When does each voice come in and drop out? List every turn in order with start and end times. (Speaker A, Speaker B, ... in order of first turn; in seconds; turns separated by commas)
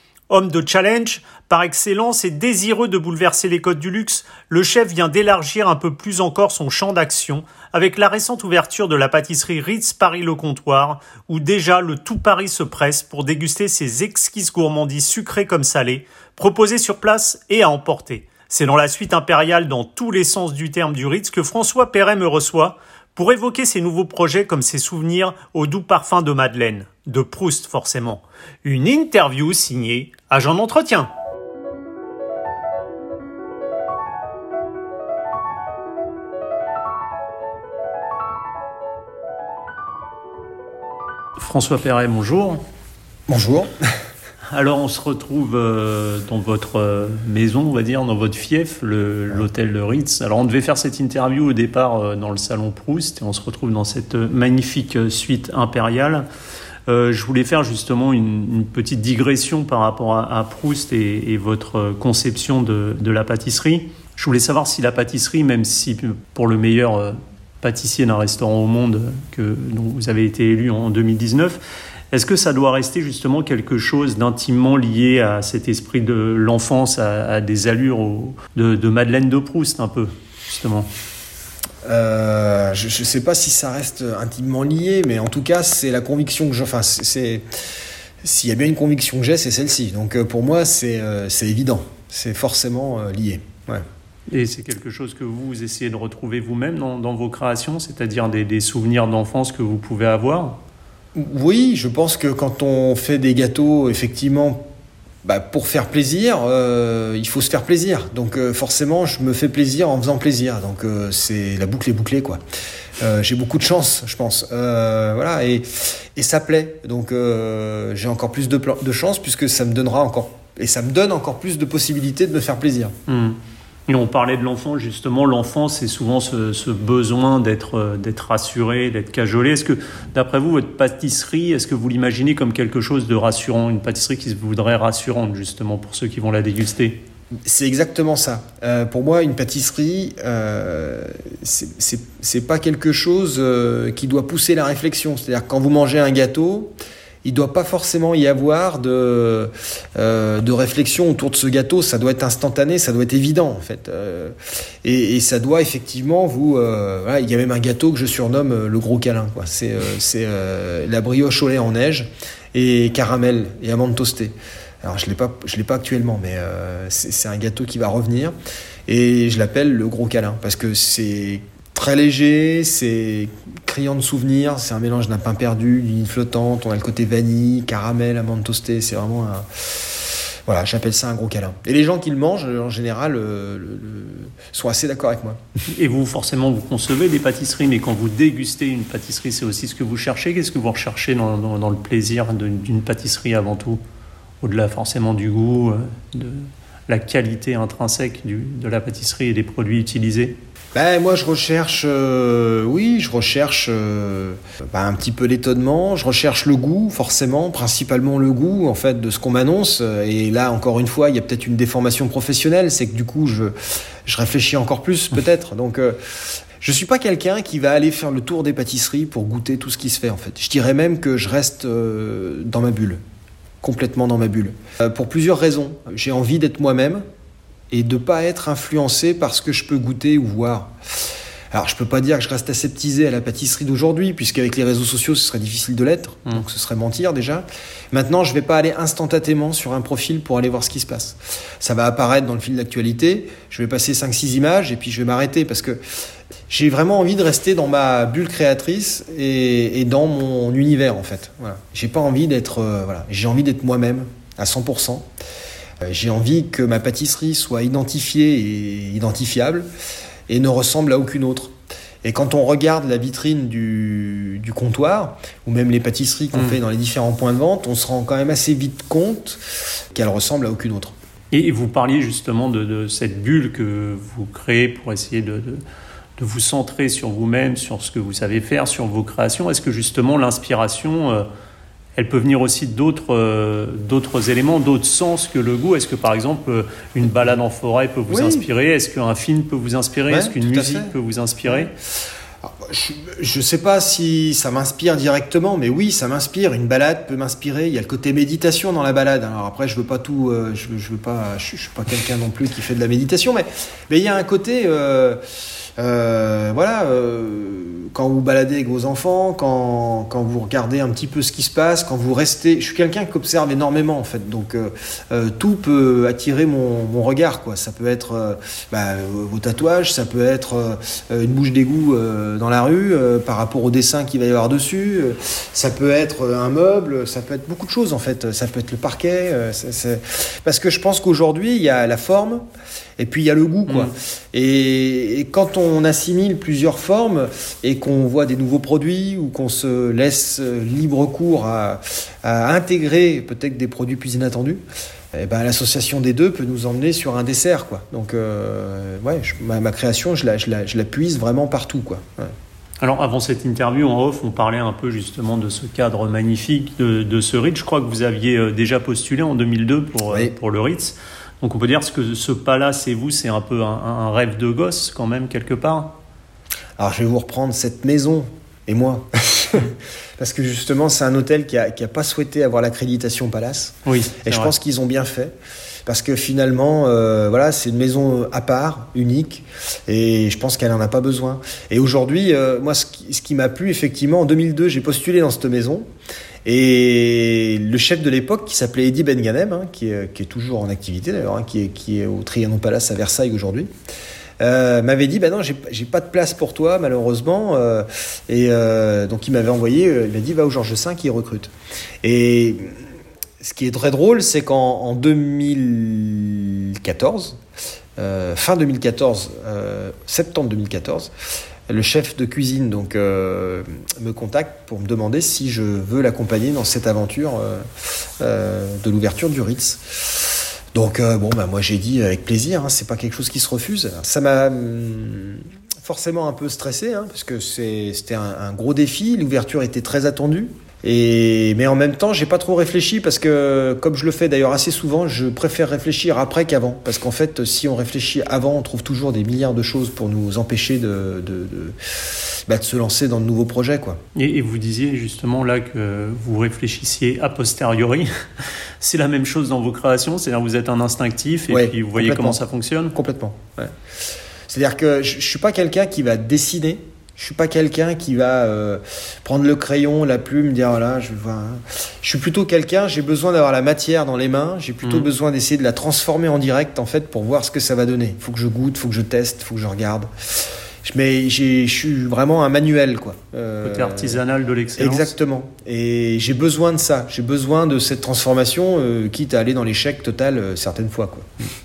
Speaker A: 0.3-31.1, Speaker A: 41.4-42.6, Speaker B: 43.3-43.7, Speaker A: 44.5-56.3, Speaker A: 56.9-71.6, Speaker A: 72.1-80.9, Speaker B: 81.8-87.4, Speaker B: 88.2-93.8, Speaker A: 94.3-100.6, Speaker B: 101.1-104.6, Speaker B: 105.2-112.4, Speaker B: 113.0-122.9, Speaker A: 123.1-137.0, Speaker B: 137.4-146.7, Speaker B: 147.2-168.3, Speaker B: 168.9-185.4, Speaker A: 185.7-193.8, Speaker A: 194.4-200.4, Speaker B: 200.7-223.0, Speaker B: 223.6-227.0, Speaker B: 227.7-245.8, Speaker B: 246.5-255.1, Speaker B: 255.8-259.6, Speaker B: 260.3-261.5, Speaker B: 262.0-270.9, Speaker A: 266.3-266.6, Speaker A: 271.3-275.6, Speaker A: 276.2-281.2, Speaker A: 282.0-291.7, Speaker B: 288.1-288.4, Speaker B: 290.1-290.9, Speaker B: 292.4-305.2, Speaker B: 305.8-332.4, Speaker B: 333.0-344.6, Speaker A: 333.7-333.9, Speaker B: 345.1-352.3, Speaker A: 352.8-365.9, Speaker B: 366.8-375.3, Speaker A: 373.9-374.5, Speaker B: 375.9-385.8, Speaker B: 386.4-393.7, Speaker B: 394.4-401.5, Speaker B: 402.0-402.7, Speaker B: 403.4-407.4, Speaker B: 408.0-411.1, Speaker B: 411.7-444.0, Speaker A: 444.1-448.1, Speaker A: 448.8-452.9, Speaker B: 451.5-452.4, Speaker B: 452.9-453.8, Speaker B: 454.5-474.2, Speaker A: 473.6-475.1, Speaker B: 474.8-481.3